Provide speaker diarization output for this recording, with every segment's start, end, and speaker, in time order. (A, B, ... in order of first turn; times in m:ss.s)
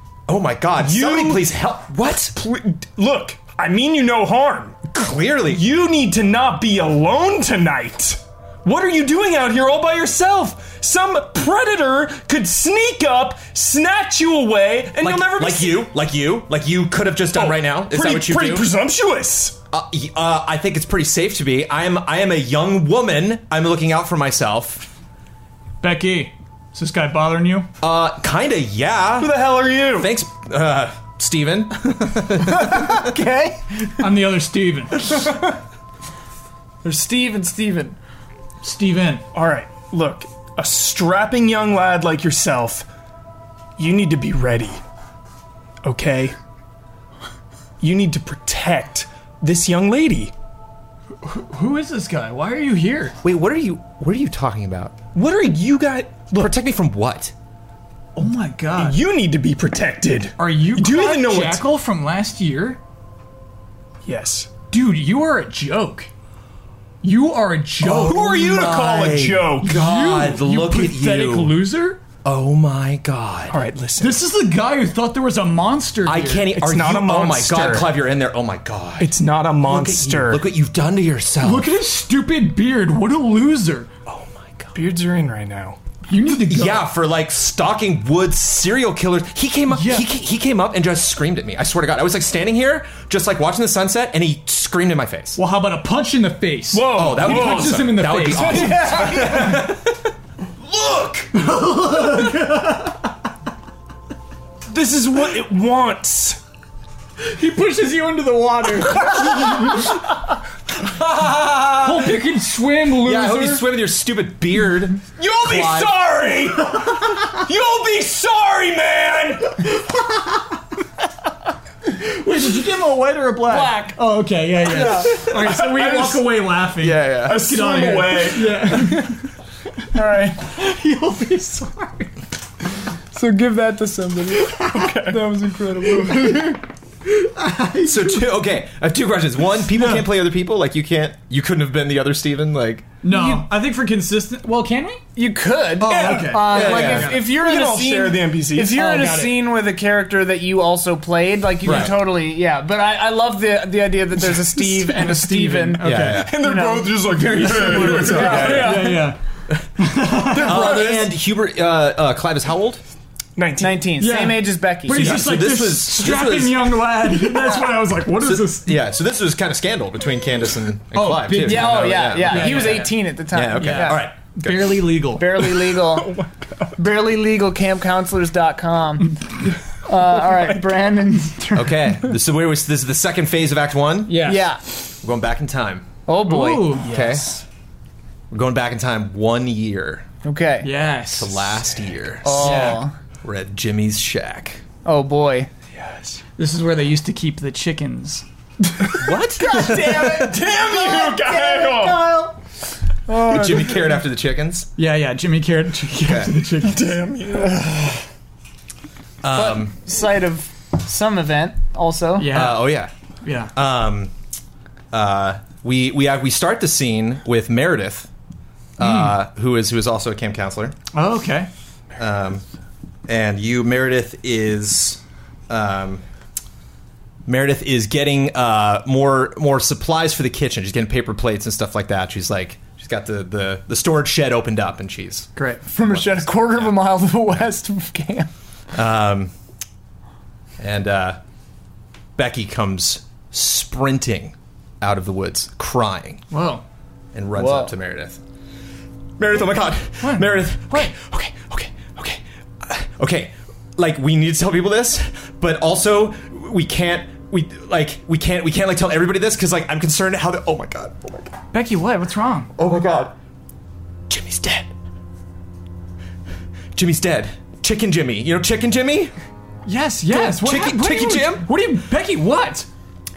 0:00.3-0:02.3 A
0:00.8-0:01.5 B
0:02.3-0:04.9 B
0:04.9-0:05.6 A
0:05.5-0:15.9 B
0:15.0-0:18.7 A
0:17.3-0:19.6 B
0:19.7-0:24.9 A
0:25.8-0:27.7 C
0:27.8-0:33.1 A
0:29.2-0:30.1 B
0:32.4-0:34.0 D
0:34.0-0:35.3 C
0:36.8-0:38.0 D
0:38.6-0:39.2 C
0:39.3-0:42.9 B
0:43.8-0:44.8 B
0:45.8-0:46.3 B
0:47.8-0:50.3 B
0:51.2-0:53.2 C
0:53.2-0:55.0 A
0:55.1-0:56.5 B
0:56.3-0:57.3 A
0:58.2-0:59.0 C
0:58.8-1:01.6 B
1:00.4-1:02.8 C
1:04.0-1:04.5 B
1:04.7-1:06.1 C
1:07.0-1:08.3 C
1:07.8-1:11.6 A
1:07.9-1:09.8 B
1:09.6-1:12.0 C
1:12.2-1:13.6 A
1:13.5-1:14.2 B
1:14.0-1:16.5 C
1:16.0-1:19.1 A
1:16.5-1:17.9 B
1:19.0-1:20.4 B
1:19.6-1:21.7 A
1:21.4-1:23.9 C
1:24.0-1:24.8 A
1:24.7-1:25.8 B
1:26.1-1:26.9 C
1:26.4-1:35.4 A
1:29.7-1:30.1 C
1:35.4-1:39.6 C
1:36.7-1:38.7 B
1:36.9-1:40.0 A
1:38.4-1:39.6 D
1:40.6-1:41.3 A
1:41.3-1:43.1 C
1:44.7-1:46.4 B
1:47.2-1:50.0 C
1:50.8-1:52.1 A
1:51.7-1:53.6 C
1:53.0-1:55.9 A
1:53.2-1:53.6 B
1:55.2-1:59.7 B
2:01.8-2:09.2 C
2:03.5-2:04.0 D
2:04.8-2:05.2 A
2:04.8-2:05.1 D
2:04.9-2:06.5 B
2:06.8-2:07.5 A
2:07.2-2:09.0 B
2:09.9-2:10.5 D
2:10.4-2:12.1 C
2:13.1-2:16.6 D
2:14.4-2:14.9 C
2:14.7-2:15.3 B
2:16.0-2:16.5 C
2:17.0-2:18.3 C
2:17.8-2:22.9 A
2:19.8-2:20.0 C
2:23.0-2:25.0 C
2:23.1-2:23.5 D
2:25.2-2:39.0 D
2:25.8-2:27.2 C
2:25.8-2:29.3 B
2:26.3-2:27.2 A
2:28.8-2:29.2 C
2:31.6-2:32.0 A
2:31.6-2:31.9 C
2:34.5-2:35.1 B
2:34.9-2:36.3 C
2:35.8-2:36.4 A
2:36.0-2:39.1 B
2:37.2-2:39.2 C
2:37.8-2:38.9 A
2:39.8-2:40.9 C
2:40.3-2:41.1 B
2:40.3-2:42.8 A
2:43.4-2:43.8 B
2:43.6-2:45.2 D
2:44.0-2:48.8 C
2:44.9-2:46.8 A
2:47.3-2:47.8 D
2:48.2-2:55.0 A
2:50.9-2:55.4 C
2:51.3-2:54.0 D
2:55.1-2:56.2 D
2:55.6-2:56.8 B
2:56.8-3:01.9 D
3:01.5-3:04.2 A
3:04.1-3:04.5 C
3:04.2-3:04.6 D
3:05.0-3:05.9 A
3:06.0-3:06.8 D
3:06.2-3:06.9 C
3:06.8-3:07.4 B
3:06.8-3:07.4 A
3:08.3-3:10.0 A
3:10.2-3:10.7 D
3:10.6-3:11.5 C
3:11.1-3:14.6 A
3:12.2-3:12.9 D
3:12.4-3:12.8 C
3:14.8-3:15.5 D
3:15.7-3:16.2 B
3:16.4-3:18.2 C
3:19.0-3:20.3 A
3:19.4-3:22.4 D
3:19.5-3:22.0 B
3:23.1-3:24.0 D
3:23.2-3:24.7 A
3:24.8-3:27.0 C
3:26.0-3:26.4 A
3:26.6-3:27.9 B
3:29.2-3:29.7 A
3:29.3-3:32.3 D
3:32.2-3:33.5 C
3:32.3-3:32.9 A
3:33.5-3:34.1 A
3:34.9-3:38.1 A
3:38.8-3:40.8 A
3:38.8-3:39.2 C
3:40.9-3:41.5 C
3:42.0-3:42.4 A
3:43.1-3:46.0 A
3:47.2-3:55.3 A
3:55.4-3:55.6 C
3:55.7-3:58.3 D
3:55.8-3:56.7 A
3:58.7-3:59.3 A
4:00.6-4:01.2 A
4:02.2-4:06.2 A
4:06.3-4:06.6 C
4:07.1-4:08.2 A
4:07.4-4:07.7 D
4:09.2-4:21.3 A
4:10.0-4:10.9 C
4:21.5-4:22.5 C
4:22.5-4:23.1 A
4:24.1-4:24.7 A
4:26.7-4:29.1 A
4:29.6-4:32.7 C
4:30.1-4:31.5 A